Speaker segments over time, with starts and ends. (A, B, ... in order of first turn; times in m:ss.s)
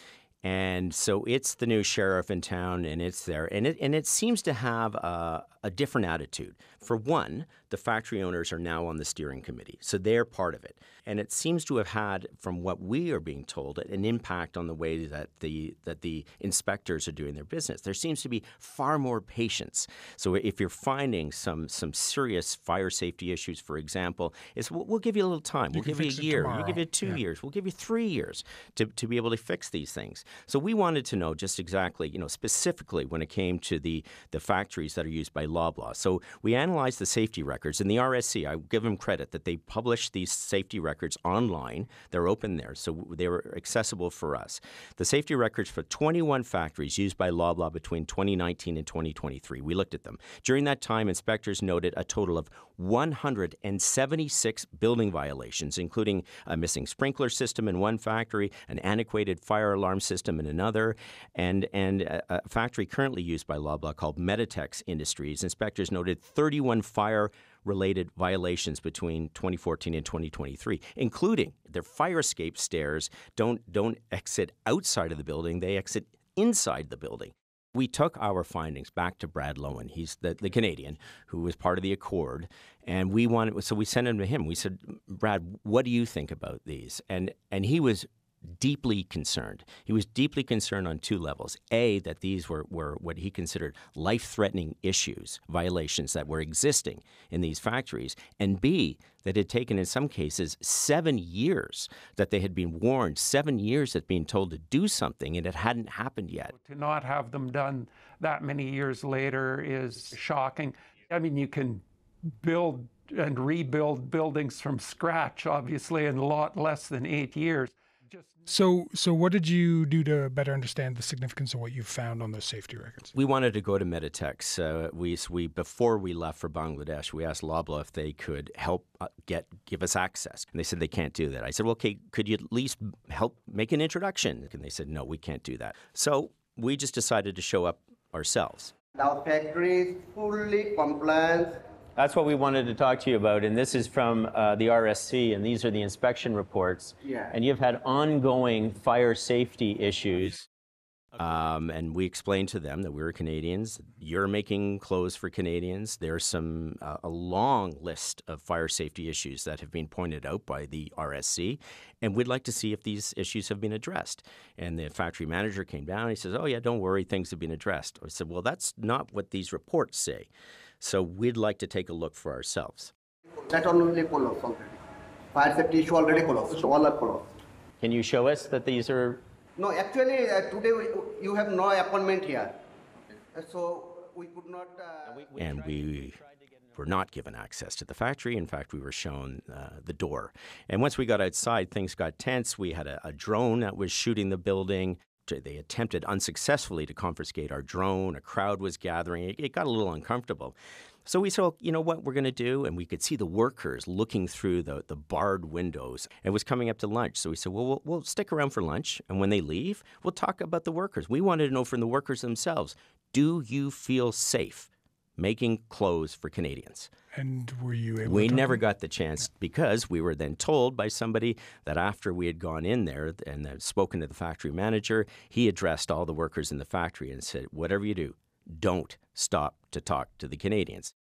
0:00.4-1:46.5 A
0:25.7-0:27.2 B
1:46.5-1:58.4 C
1:58.5-2:03.1 B
2:03.1-2:18.7 A
2:19.0-2:21.6 D
2:22.0-2:30.5 A
2:27.0-2:27.3 D
2:31.2-2:52.9 A
2:53.3-2:54.8 D
2:55.3-2:57.3 D
2:57.8-2:59.2 A
2:59.6-3:02.6 D
3:03.3-3:05.3 D
3:05.1-3:36.9 A
3:37.1-3:38.6 B
3:38.0-3:50.9 A